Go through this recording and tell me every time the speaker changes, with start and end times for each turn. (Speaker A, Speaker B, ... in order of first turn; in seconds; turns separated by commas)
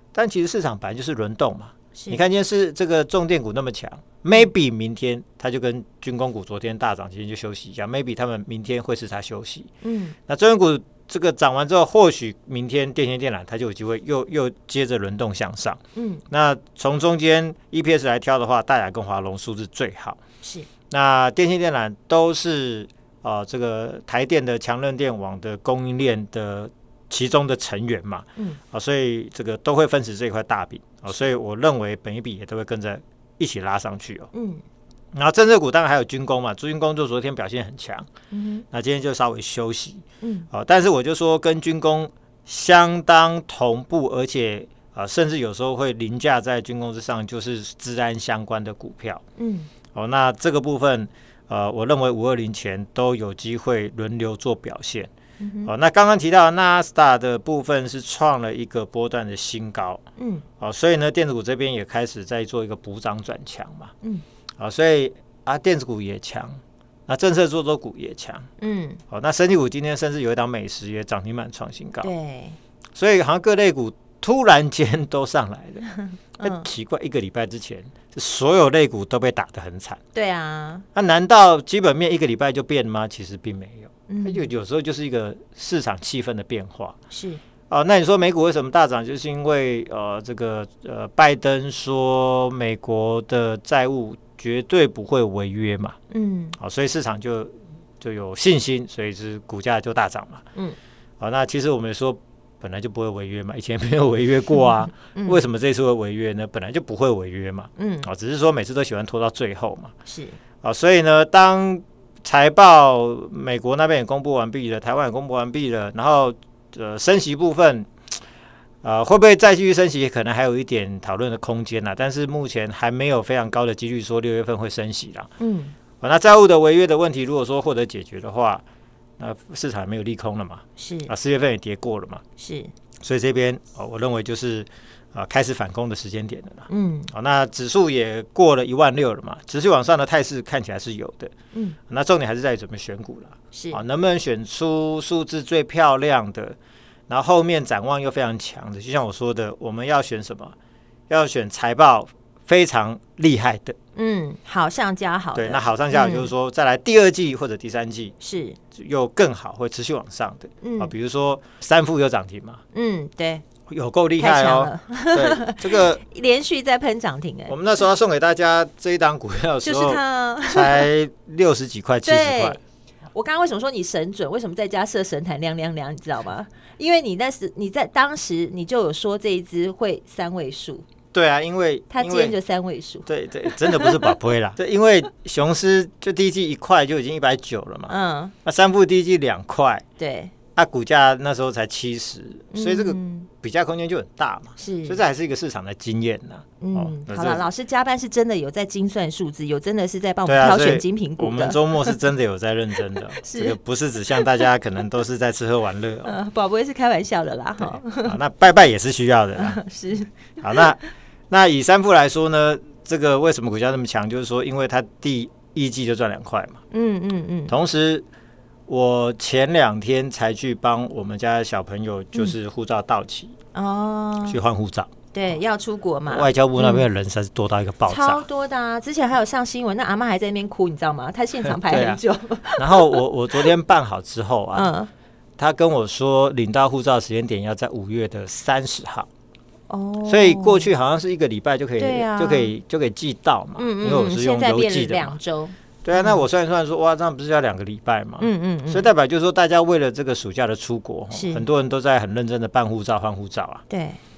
Speaker A: 0.1-9.7, Speaker B: 1.9-2.2, Speaker B: 9.8-10.2, Speaker A: 10.3-20.2, Speaker B: 15.9-16.2, Speaker B: 20.4-20.7, Speaker A: 20.9-34.3, Speaker B: 34.3-34.6, Speaker A: 35.1-38.1, Speaker B: 38.3-38.6, Speaker A: 38.7-49.2, Speaker B: 40.2-40.5, Speaker B: 49.4-49.7, Speaker A: 49.9-55.1, Speaker B: 55.4-55.7, Speaker A: 55.6-60.0, Speaker B: 60.2-60.5, Speaker A: 60.6-63.9, Speaker A: 64.6-68.5, Speaker B: 68.6-69.0, Speaker A: 69.1-72.1, Speaker B: 72.0-72.6, Speaker A: 73.0-75.9, Speaker B: 76.4-76.7, Speaker A: 76.4-80.0, Speaker B: 80.1-80.8, Speaker A: 80.9-86.9, Speaker B: 84.1-84.5, Speaker B: 87.1-87.4, Speaker A: 87.7-96.0, Speaker B: 96.1-96.5, Speaker A: 96.6-100.4, Speaker A: 101.2-109.9, Speaker B: 104.6-105.4, Speaker B: 107.8-108.1, Speaker B: 110.0-110.4, Speaker A: 110.6-117.9, Speaker A: 118.8-125.3, Speaker B: 125.4-125.7, Speaker A: 126.0-128.6, Speaker A: 129.2-132.2, Speaker B: 130.8-131.1, Speaker B: 132.4-132.7, Speaker A: 133.0-141.3, Speaker B: 136.7-137.1, Speaker B: 141.5-141.8, Speaker A: 141.9-146.6, Speaker B: 143.5-143.8, Speaker A: 147.1-150.5, Speaker A: 151.1-153.8, Speaker B: 153.9-156.3, Speaker A: 155.3-158.1, Speaker B: 158.2-158.6, Speaker A: 158.7-162.6, Speaker B: 160.6-160.9, Speaker B: 162.7-163.4, Speaker A: 163.7-166.0, Speaker B: 164.2-167.6, Speaker A: 167.5-172.6, Speaker B: 169.6-170.9, Speaker B: 172.0-172.6, Speaker B: 173.1-180.8, Speaker A: 181.1-182.4, Speaker B: 181.9-184.1, Speaker A: 183.0-189.8, Speaker B: 187.9-188.3, Speaker B: 190.0-190.3, Speaker A: 190.5-197.4, Speaker B: 192.5-193.3, Speaker B: 194.6-195.0, Speaker B: 196.6-202.0, Speaker A: 200.2-206.2, Speaker B: 203.2-203.6, Speaker B: 204.1-204.4, Speaker B: 206.0-208.1, Speaker A: 207.6-209.6, Speaker B: 209.3-210.7, Speaker A: 210.4-216.6, Speaker B: 216.7-217.5, Speaker A: 217.5-218.1, Speaker A: 218.7-223.3, Speaker B: 223.5-224.4, Speaker A: 224.2-224.9, Speaker B: 225.1-226.9, Speaker A: 226.1-228.2, Speaker B: 227.9-233.0, Speaker A: 231.4-232.0, Speaker A: 232.6-234.7, Speaker B: 234.5-234.9, Speaker A: 235.4-239.1, Speaker B: 239.7-240.7, Speaker A: 240.1-245.2, Speaker B: 241.8-242.5, Speaker B: 243.6-246.2, Speaker A: 245.8-253.6, Speaker B: 248.2-248.9, Speaker B: 251.1-251.4, Speaker B: 253.7-254.0